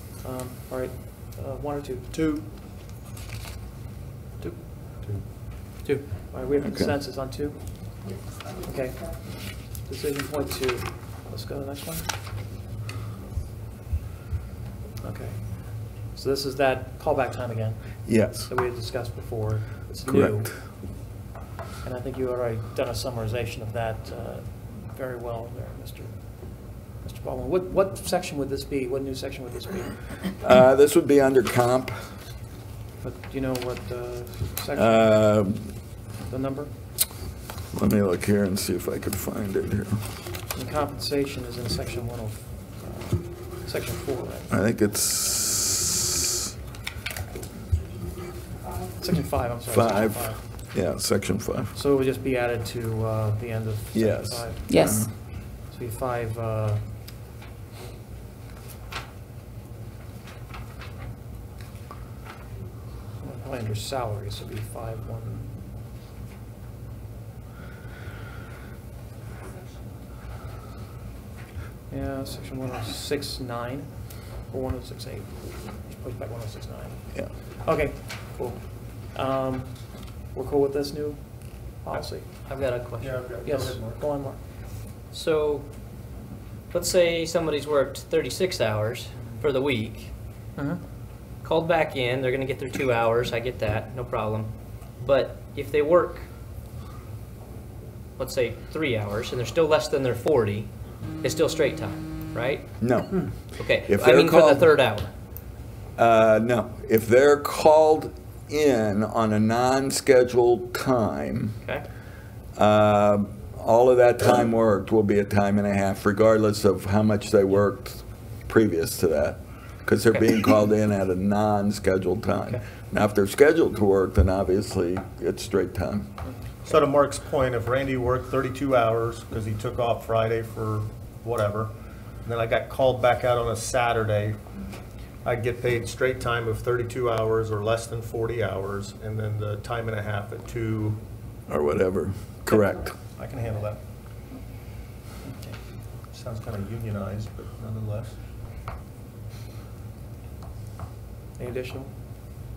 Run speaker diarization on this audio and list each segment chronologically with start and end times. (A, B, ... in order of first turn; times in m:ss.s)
0:00.2-0:02.1 A
0:06.2-0:08.0 A
0:06.6-0:06.9 B
0:08.6-0:09.2 A
0:09.7-0:12.1 A
0:15.0-0:20.6 A
0:18.1-0:18.5 B
0:20.1-0:20.4 B
0:21.8-0:30.1 A
0:30.4-0:32.0 B
0:33.0-0:35.2 A
0:34.7-0:35.7 B
0:36.2-0:36.7 A
0:37.7-0:40.0 B
0:40.5-0:44.5 A
0:44.5-0:46.4 B
0:49.0-0:50.4 A
0:49.7-0:51.7 B
0:51.7-0:55.0 A
0:53.9-0:55.1 B
0:55.6-0:56.8 A
1:03.2-1:05.6 A
1:11.9-1:22.3 A
1:22.3-1:23.2 C
1:23.0-1:24.0 D
1:23.4-1:24.4 A
1:25.1-1:25.7 C
1:26.7-1:30.1 C
1:30.6-1:30.8 A
1:31.4-1:36.3 C
1:38.2-1:42.7 C
1:42.8-1:44.8 B
1:43.6-1:45.1 C
1:46.0-1:51.6 B
1:52.6-2:06.1 B
2:06.6-2:11.7 D
2:12.2-2:14.4 D
2:15.2-2:21.0 D
2:21.5-2:23.0 B
2:23.1-2:23.8 D
2:25.2-2:25.6 A
2:26.1-2:28.2 D
2:31.4-2:31.9 A